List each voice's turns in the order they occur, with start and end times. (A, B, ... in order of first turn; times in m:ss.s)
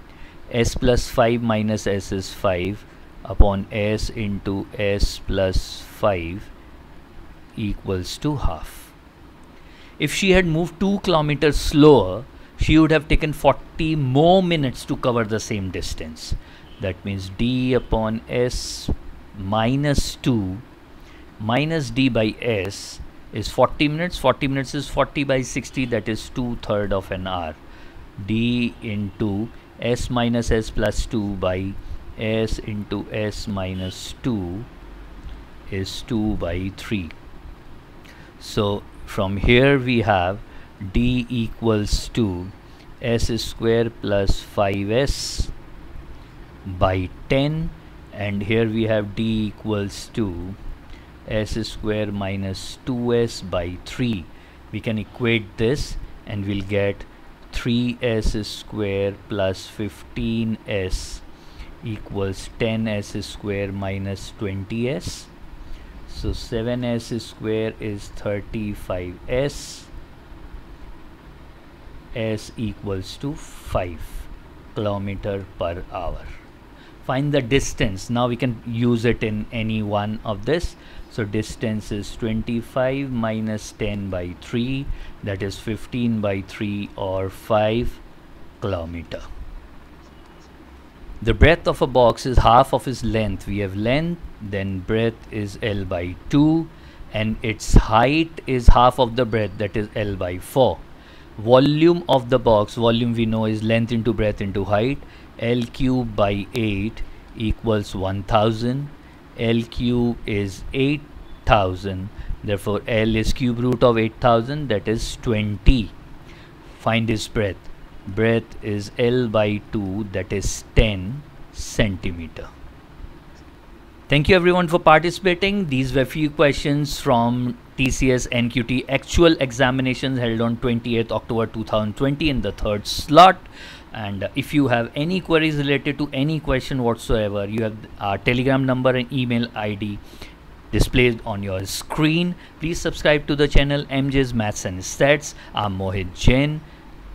0:00.5-0:06.5 A
0:07.5-0:08.9 A
0:10.0-0:20.6 A
0:21.4-0:27.6 A
0:28.2-0:34.7 A
0:35.7-0:37.1 A
0:38.4-0:45.5 A
0:46.6-0:50.6 A
0:51.2-1:01.2 A
1:01.8-1:05.3 A
1:06.1-1:09.9 A
1:12.1-1:16.3 A
1:17.0-1:28.0 A
1:28.6-1:29.2 A
1:31.2-1:40.8 A
1:41.4-1:55.9 A
1:56.8-2:02.5 A
2:04.1-2:20.0 A
2:20.7-2:26.6 A